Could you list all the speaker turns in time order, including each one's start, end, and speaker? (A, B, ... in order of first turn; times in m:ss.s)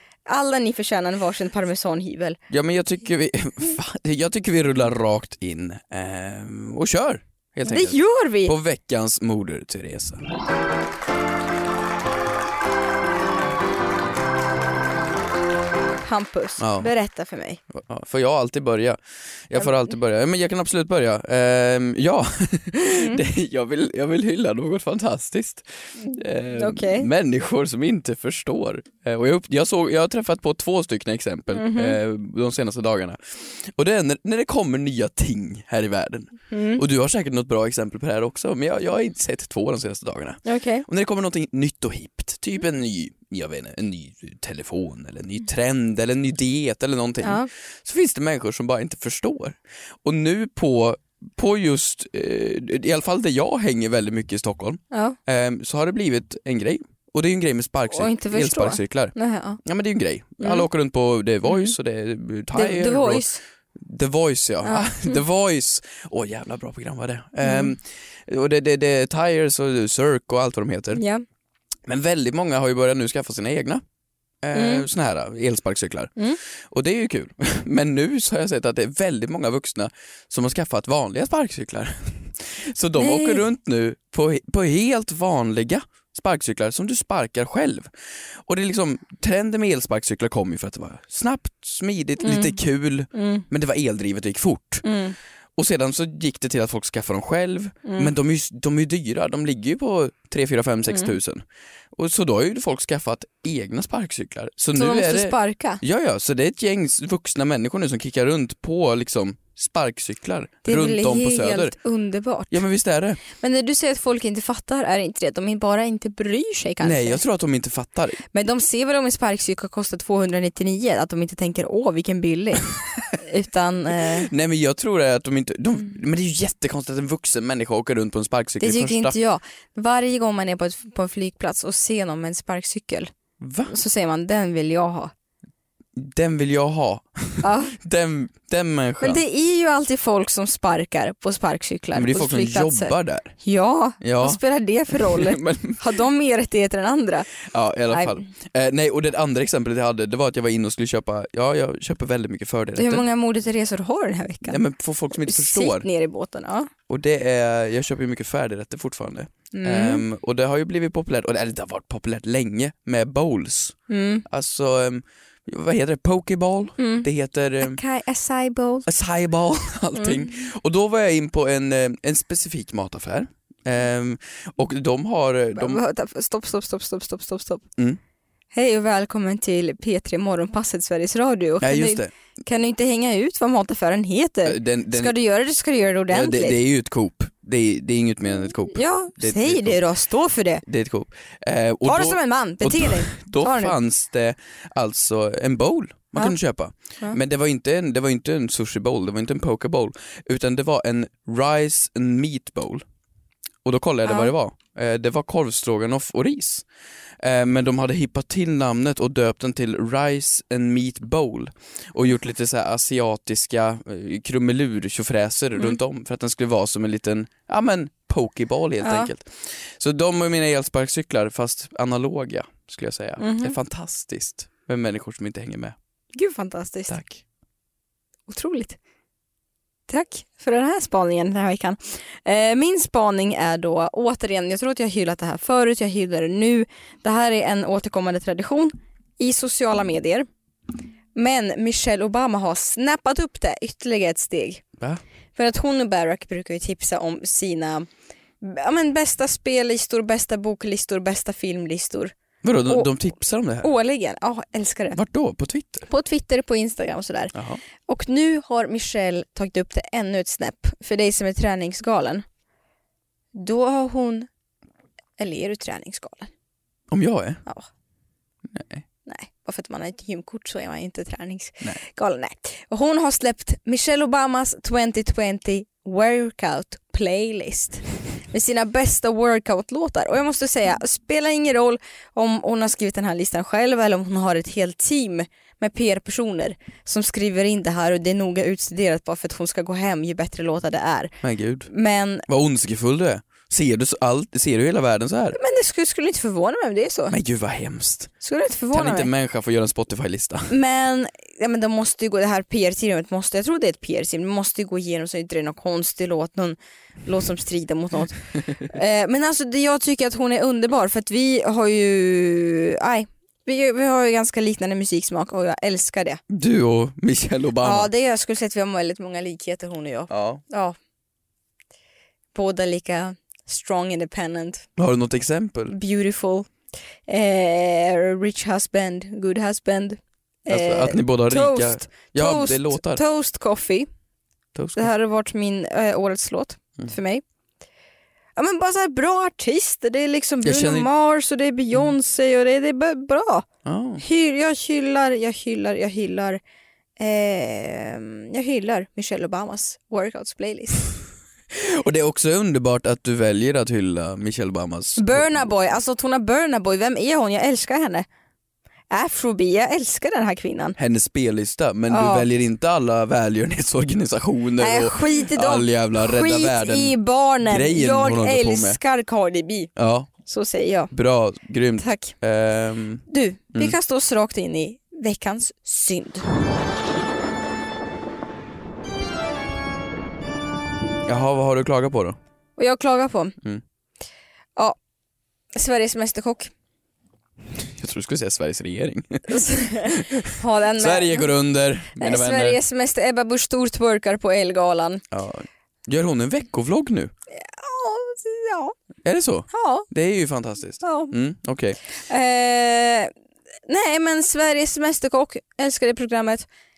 0:00.3-0:02.4 A
0:02.5-0:10.2 B
0:07.7-0:08.5 A
0:16.0-0:17.6 A
0:16.6-0:16.9 B
0:17.7-1:11.0 B
0:26.0-0:27.1 A
0:31.5-0:32.0 A
0:36.5-0:36.8 A
0:40.4-0:40.8 A
0:47.2-0:47.5 A
0:54.9-0:55.2 A
0:57.9-0:59.6 A
1:00.4-1:00.6 A
1:01.5-1:01.7 A
1:02.5-1:03.4 A
1:04.6-1:05.2 A
1:07.4-1:07.7 A
1:10.9-1:11.2 A
1:11.9-1:13.8 B
1:14.4-1:34.8 B
1:14.5-1:14.8 A
1:23.0-1:23.4 A
1:32.2-1:32.6 A
1:33.1-1:33.4 A
1:34.8-1:35.2 A
1:35.6-1:41.4 B
1:37.8-1:38.1 A
1:40.9-1:41.1 A
1:41.9-1:51.7 B
1:44.7-1:45.8 A
1:50.6-1:52.6 A
1:52.5-1:53.2 B
1:53.3-1:57.2 A
1:56.8-1:58.2 B
1:58.3-2:04.3 A
2:04.0-2:09.1 B
2:08.6-2:13.1 A
2:13.4-2:13.7 B
2:13.6-2:15.1 A
2:16.0-2:19.2 B
2:17.4-2:17.8 A
2:19.0-2:27.3 A
2:21.9-2:23.3 B
2:24.0-2:25.8 B
2:27.4-2:33.0 B
2:27.9-2:28.2 A
2:32.8-2:34.6 A
2:34.5-2:35.9 B
2:35.2-2:36.7 A
2:36.9-2:47.8 B
2:39.5-2:40.0 A
2:43.9-2:44.2 A
2:46.8-2:47.1 A
2:47.6-2:48.8 A
2:48.8-2:55.8 B
2:50.0-2:50.4 A
2:55.6-2:57.6 A
2:58.5-3:06.6 A
3:01.6-3:02.1 B
3:04.4-3:05.1 B
3:06.1-3:09.8 B
3:08.7-3:10.6 A
3:10.6-3:22.8 B
3:11.8-3:13.7 A
3:23.6-3:26.6 B
3:24.0-3:24.3 A
3:27.2-3:45.8 B
3:38.8-3:39.1 A
3:43.2-3:43.6 A
3:46.1-3:47.0 A
3:46.9-3:47.2 B
3:48.3-3:48.8 A
3:49.9-4:00.3 A
4:01.1-4:04.6 A
4:05.4-4:07.9 A
4:08.4-4:12.1 A
4:12.4-4:13.7 B
4:13.6-4:15.0 A
4:14.9-4:15.9 B
4:15.9-4:17.3 A
4:17.3-4:17.6 B
4:17.9-4:22.2 A
4:23.3-4:24.3 A
4:25.2-4:26.3 A
4:26.9-4:27.4 B
4:28.5-4:28.8 B
4:29.0-4:51.2 A
4:51.2-4:51.7 B
4:51.7-4:52.2 A
4:52.3-4:55.4 B
4:55.3-4:57.2 A
4:57.1-4:58.1 B
4:58.2-4:59.1 A
4:58.7-5:00.5 B
5:00.5-5:16.2 A
5:16.3-5:17.9 B
5:17.6-5:20.8 A
5:20.1-5:20.4 B
5:22.3-5:24.7 A
5:24.8-5:25.8 B
5:25.7-5:26.5 A
5:27.1-5:33.9 A
5:30.5-5:33.0 B
5:34.5-5:34.9 B
5:34.8-5:37.2 A
5:38.4-5:43.4 A
5:40.4-5:40.9 B
5:43.6-5:44.0 B
5:44.0-5:46.4 A
5:47.0-5:50.9 A
5:51.5-5:55.5 B
5:55.0-5:58.0 A
5:58.9-6:00.8 A
6:00.8-6:08.8 B
6:01.9-6:02.3 A
6:04.6-6:09.7 A
6:09.8-6:10.1 B
6:10.2-6:10.9 A
6:10.9-6:13.7 B
6:11.8-6:12.1 A
6:13.1-6:16.2 A
6:21.0-6:22.2 B
6:22.6-6:23.4 A
6:25.5-6:26.5 A
6:27.6-6:32.6 B
6:29.3-6:31.3 A
6:32.0-6:35.0 A
6:35.1-6:37.1 B
6:37.3-6:38.7 A
6:39.0-6:41.8 B
6:39.5-6:39.9 A
6:40.8-6:41.1 A
6:42.1-6:43.1 A
6:43.7-6:46.4 A